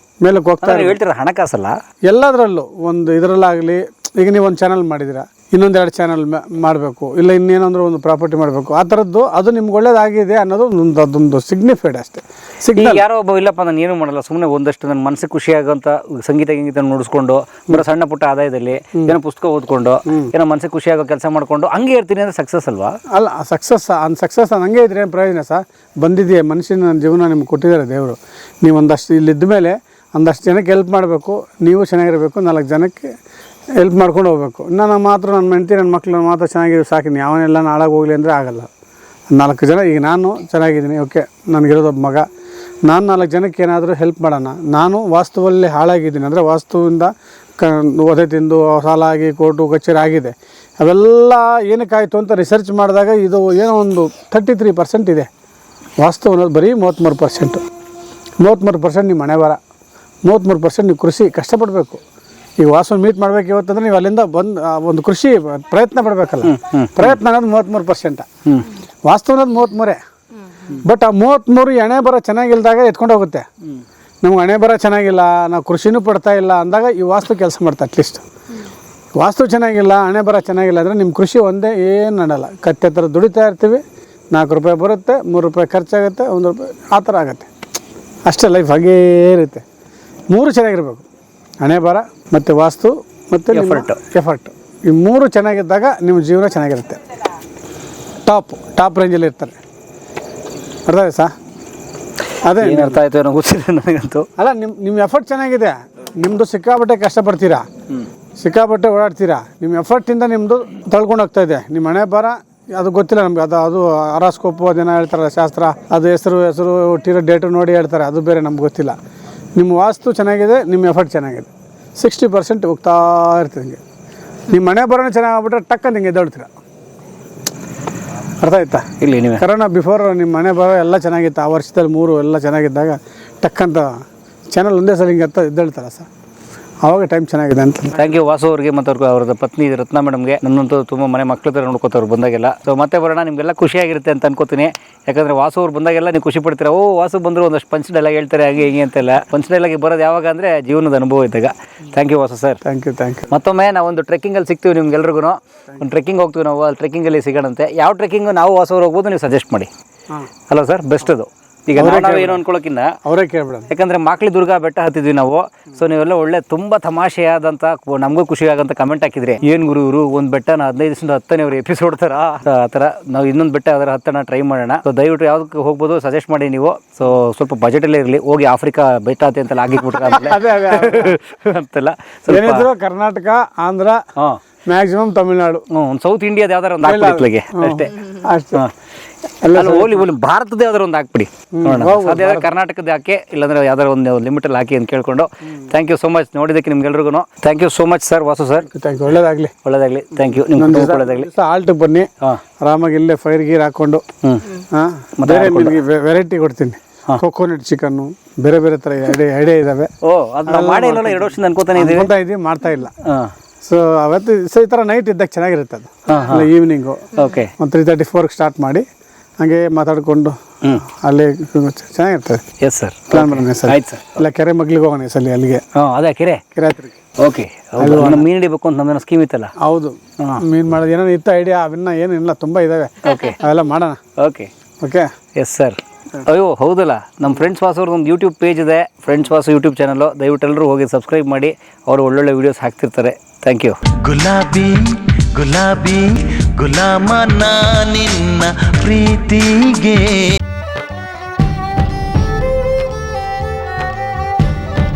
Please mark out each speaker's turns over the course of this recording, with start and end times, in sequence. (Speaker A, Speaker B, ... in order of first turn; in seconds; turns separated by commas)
Speaker A: 0.2-1.0, Speaker B: 0.6-1.8, Speaker A: 2.1-13.1, Speaker B: 12.8-23.0, Speaker A: 20.1-20.3, Speaker A: 23.1-33.1, Speaker A: 33.8-38.7, Speaker A: 39.3-42.2, Speaker A: 42.9-55.3, Speaker A: 56.0-57.6, Speaker A: 58.4-59.6, Speaker A: 60.2-62.0, Speaker A: 62.6-68.3, Speaker B: 66.4-67.2, Speaker A: 69.0-70.0, Speaker A: 70.7-73.5, Speaker A: 74.2-78.2, Speaker A: 79.2-87.5, Speaker A: 88.3-89.6, Speaker A: 90.3-91.0, Speaker A: 91.6-97.0, Speaker B: 93.5-94.0, Speaker A: 98.3-99.6, Speaker A: 100.9-101.3, Speaker A: 102.4-103.0, Speaker B: 102.6-104.3, Speaker A: 104.4-107.7, Speaker A: 108.4-119.0, Speaker A: 119.6-123.8, Speaker A: 124.5-126.5, Speaker A: 128.4-128.9, Speaker B: 129.0-129.4, Speaker A: 129.4-136.1, Speaker A: 136.8-138.1, Speaker B: 137.9-152.6, Speaker A: 152.6-153.3, Speaker B: 153.3-159.7, Speaker B: 160.5-162.9, Speaker A: 161.8-162.4, Speaker A: 163.1-163.7, Speaker B: 163.7-182.7, Speaker A: 179.9-181.2, Speaker A: 182.3-184.0, Speaker A: 184.7-185.7, Speaker B: 185.7-188.7, Speaker A: 186.8-188.6, Speaker A: 189.4-190.1, Speaker B: 189.5-198.7, Speaker A: 191.5-192.5, Speaker A: 198.7-199.5, Speaker B: 199.6-201.3, Speaker A: 200.3-202.1, Speaker A: 202.6-204.0, Speaker B: 204.2-204.6, Speaker A: 204.6-209.9, Speaker B: 205.2-205.8, Speaker B: 210.0-212.1, Speaker A: 210.5-212.9, Speaker B: 213.0-213.3, Speaker A: 213.7-218.8, Speaker B: 216.1-216.5, Speaker B: 217.2-217.5, Speaker A: 219.4-222.4, Speaker B: 222.6-224.2, Speaker A: 223.1-225.6, Speaker B: 225.7-226.4, Speaker A: 226.6-227.0, Speaker B: 227.2-229.5, Speaker A: 227.8-228.3, Speaker A: 229.6-234.0, Speaker B: 233.0-233.4, Speaker B: 234.2-234.5, Speaker A: 234.8-235.1, Speaker B: 235.4-244.0, Speaker C: 243.9-250.4